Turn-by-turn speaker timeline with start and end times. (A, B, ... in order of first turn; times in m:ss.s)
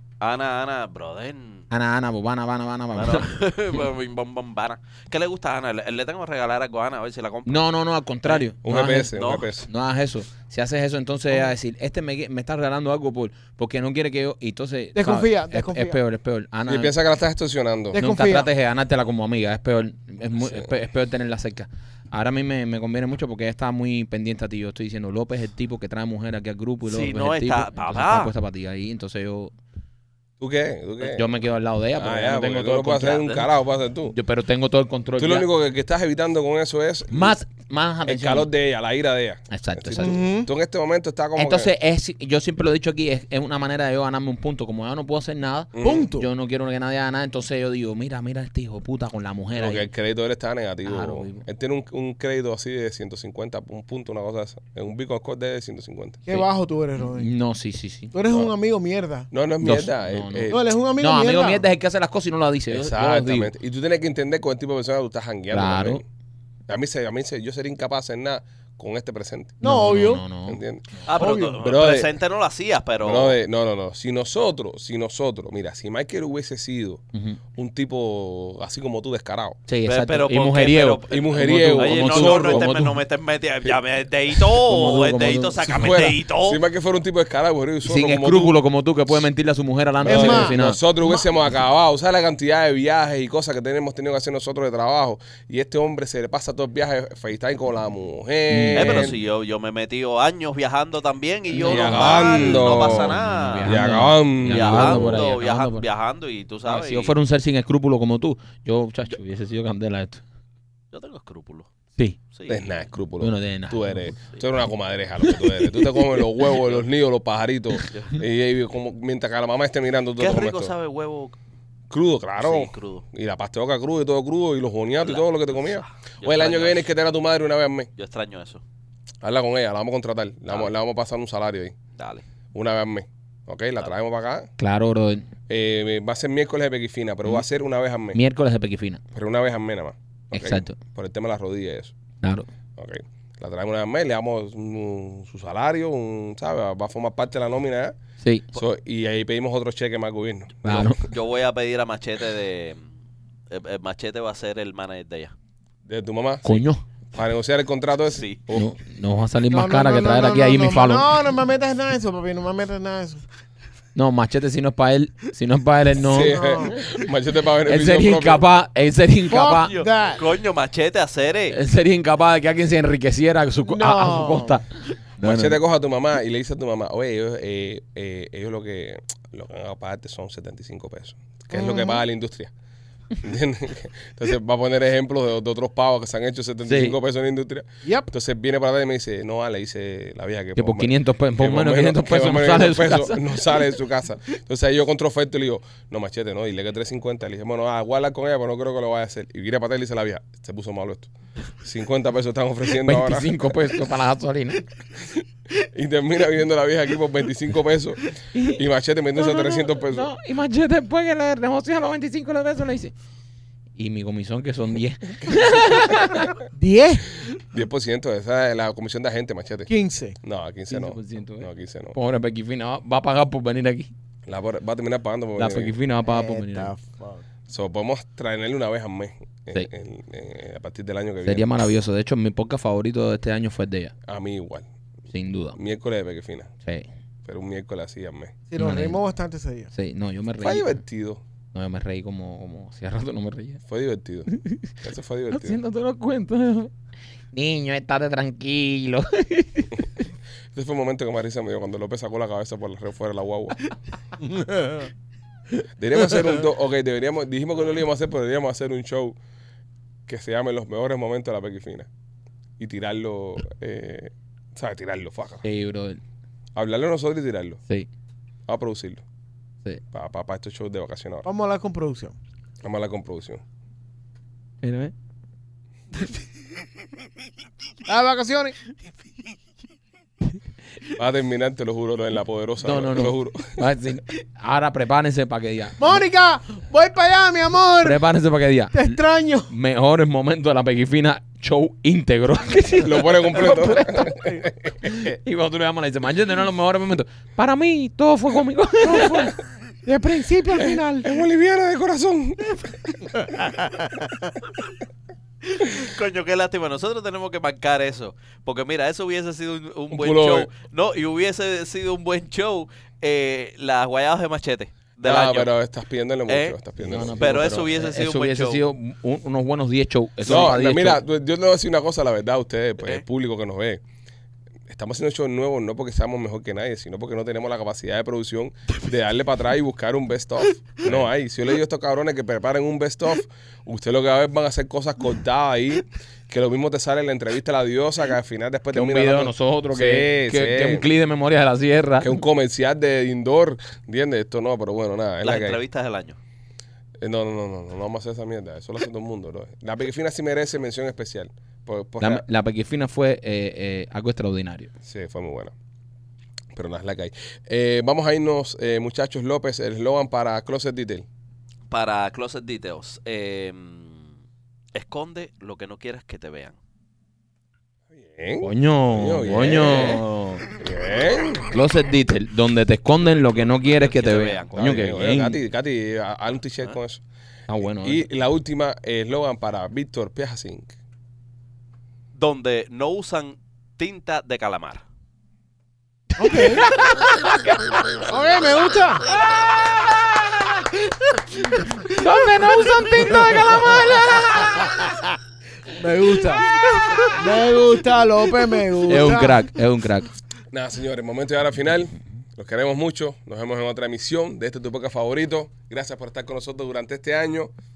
0:00.2-0:01.6 A
0:01.7-0:03.3 B
0:02.9-0:07.6 A
0:07.4-0:16.9 B
0:08.6-0:09.7 C
0:09.1-0:09.5 A
0:14.9-0:16.0 D
0:16.7-0:18.0 C
0:17.9-0:18.5 D
0:17.9-0:29.5 B
0:20.4-0:20.7 C
0:26.8-0:28.3 A
0:30.4-0:31.3 C
0:31.0-0:33.5 B
0:32.0-0:34.1 C
0:34.1-0:35.5 B
0:35.2-0:37.4 C
0:37.1-0:38.5 B
0:38.0-0:41.7 C
0:39.5-0:40.2 B
0:40.0-0:40.5 D
0:41.4-0:49.8 B
0:45.7-0:46.1 C
0:45.8-0:46.3 D
0:49.6-0:56.2 C
0:50.8-0:51.4 B
0:56.2-0:57.3 D
0:56.3-0:58.1 B
0:58.1-0:59.3 D
0:59.3-1:00.6 C
0:59.6-1:03.5 B
1:00.5-1:01.7 D
1:02.7-1:06.0 C
1:05.5-1:06.0 B
1:06.7-1:09.6 C
1:09.6-1:10.2 D
1:09.6-1:11.0 B
1:10.4-1:10.9 C
1:11.0-1:13.4 A
1:11.1-1:11.6 D
1:11.6-1:12.1 C
1:13.0-1:17.0 C
1:17.1-1:17.4 B
1:17.5-1:19.6 C
1:19.7-1:23.0 B
1:19.8-1:26.6 A
1:21.1-1:22.7 C
1:24.6-1:25.8 B
1:25.7-1:28.6 C
1:27.8-1:30.8 B
1:30.0-1:30.5 D
1:30.0-1:39.2 C
1:38.5-1:39.1 B
1:38.7-1:43.9 A
1:41.5-1:45.9 B
1:41.6-1:45.2 C
1:44.5-1:47.1 A
1:46.6-1:50.2 B
1:50.9-1:51.7 A
1:52.3-1:52.6 A
1:52.5-2:00.7 C
1:53.2-1:54.2 B
1:57.9-1:58.2 A
2:00.2-2:01.4 A
2:01.9-2:07.9 C
2:02.4-2:03.0 A
2:05.0-2:06.9 A
2:08.0-2:08.6 A
2:09.2-2:11.8 C
2:12.0-2:12.2 A
2:12.5-2:14.5 C
2:14.6-2:15.3 B
2:15.5-2:18.2 C
2:18.1-2:19.0 B
2:19.1-2:21.9 C
2:20.3-2:20.8 B
2:22.8-2:27.9 C
2:28.5-2:30.9 C
2:30.6-2:31.0 B
2:31.0-2:32.8 A
2:33.5-2:35.3 A
2:35.9-2:36.5 C
2:36.4-2:36.8 B
2:37.1-2:38.7 C
2:38.1-2:38.4 A
2:38.5-2:41.1 B
2:39.5-2:43.2 D
2:43.9-2:46.5 B
2:46.0-2:48.4 C
2:46.1-2:46.8 D
2:47.6-2:49.7 B
2:49.3-2:50.2 D
2:49.6-2:51.6 A
2:51.5-2:55.6 B
2:53.7-2:54.6 D
2:55.2-3:02.5 C
3:01.5-3:02.0 D
3:03.2-3:23.7 C
3:06.6-3:07.0 B
3:07.8-3:08.1 D
3:10.6-3:13.5 B
3:22.8-3:24.6 B
3:25.0-3:30.1 C
3:28.3-3:28.6 B
3:29.1-3:32.9 B
3:33.8-3:36.3 B
3:36.5-3:37.2 D
3:37.5-3:39.7 C
3:39.7-3:40.2 D
3:40.2-3:42.0 C
3:40.7-3:43.9 B
3:44.3-3:45.7 C
3:45.4-3:46.7 B
3:46.1-3:47.2 D
3:47.5-3:51.5 C
3:51.2-3:53.9 B
3:54.1-3:54.7 C
3:55.1-3:55.6 B
3:55.5-3:56.5 C
3:57.2-3:58.3 C
3:58.5-3:59.7 D
3:58.6-3:59.0 B
3:59.7-4:00.8 B
4:00.4-4:01.2 C
4:01.5-4:03.6 B
4:03.7-4:04.3 C
4:04.3-4:04.7 B
4:04.8-4:05.6 C
4:05.3-4:06.7 B
4:07.3-4:09.8 B
4:10.5-4:13.6 C
4:14.3-4:14.9 D
4:15.8-4:19.2 C
4:20.1-4:21.9 C
4:22.6-4:25.4 C
4:25.4-4:26.0 B
4:26.6-4:27.6 C
4:28.5-4:29.0 C
4:29.9-4:31.3 C
4:31.2-4:32.2 D
4:32.6-4:33.4 C
4:34.6-4:34.9 B
4:37.9-4:38.5 D
4:41.0-4:43.6 C
4:42.6-4:46.0 B
4:45.8-4:48.0 D
4:47.8-4:54.2 B
4:48.7-4:49.5 D
4:52.8-4:55.1 C
4:54.8-4:59.3 B
4:58.9-5:01.1 D
5:00.6-5:02.9 C
5:03.4-5:03.7 D
5:05.5-5:15.5 A
5:09.9-5:10.5 C
5:15.0-5:17.6 C
5:16.3-5:18.6 A
5:16.8-5:21.0 B
5:20.2-5:23.8 C
5:24.7-5:40.8 C
5:38.7-5:42.2 B
5:42.0-5:45.6 C
5:45.2-5:46.2 A
5:47.0-5:52.2 C
5:52.0-5:54.7 B
5:54.8-5:55.5 C
5:56.5-6:01.0 C
6:01.7-6:04.1 A
6:04.7-6:06.6 A
6:07.9-6:10.0 C
6:08.4-6:10.4 B
6:10.6-6:11.5 C
6:11.5-6:15.4 B
6:13.6-6:14.6 A
6:14.5-6:17.0 C
6:17.5-6:18.0 B
6:17.8-6:20.7 C
6:22.1-6:24.8 A
6:26.2-6:26.7 D
6:26.2-6:28.1 B
6:28.1-6:29.0 D
6:31.8-6:34.7 B
6:32.8-6:34.9 D
6:35.7-6:36.5 D
6:36.6-6:37.7 A
6:37.1-6:39.4 D
6:38.8-6:40.1 B
6:40.5-6:47.5 C